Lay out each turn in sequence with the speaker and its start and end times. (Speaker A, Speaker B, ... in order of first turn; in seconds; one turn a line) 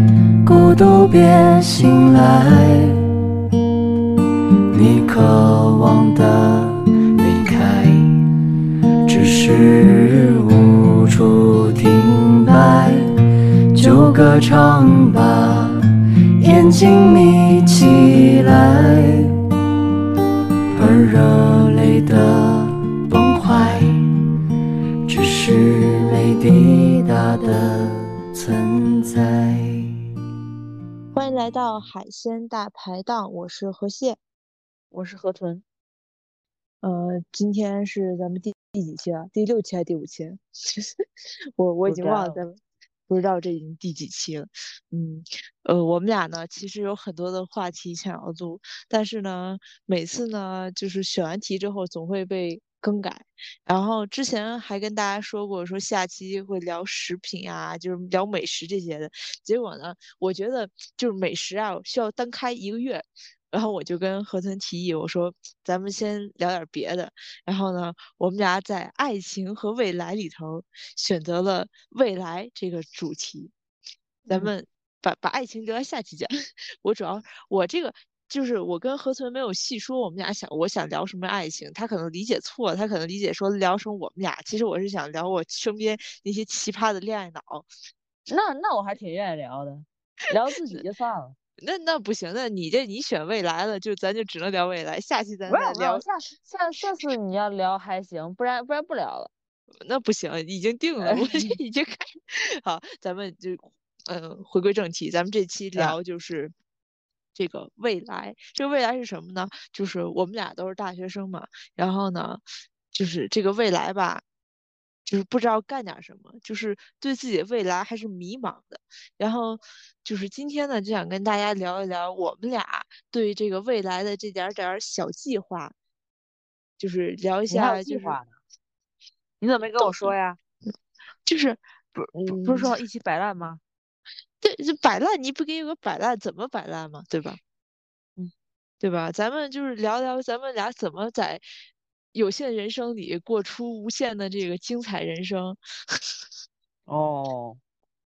Speaker A: 0.4-2.9
Speaker A: 4.7-8.0
Speaker A: 9.1-13.0
Speaker A: 13.8-15.7
Speaker A: 16.4-19.2
Speaker A: 20.8-23.9
Speaker A: 25.1-29.7
Speaker B: 31.1-34.2
Speaker C: 34.9-35.6
Speaker B: 36.8-41.0
Speaker B: 41.6-73.5
Speaker C: 41.8-42.4
Speaker B: 74.3-76.3
Speaker B: 76.8-87.7
Speaker C: 88.3-91.4
Speaker B: 91.6-96.0
Speaker C: 95.5-99.3
Speaker B: 99.8-106.5
Speaker C: 101.0-101.6
Speaker B: 107.3-112.4
Speaker B: 112.9-114.2
Speaker B: 115.1-125.7
Speaker B: 126.8-128.2
Speaker C: 127.5-128.3
Speaker C: 129.4-130.4
Speaker B: 129.8-130.1
Speaker B: 131.2-132.7
Speaker C: 132.1-133.6
Speaker B: 134.4-137.4
Speaker B: 138.8-141.4
Speaker B: 142.1-145.6
Speaker C: 146.9-147.6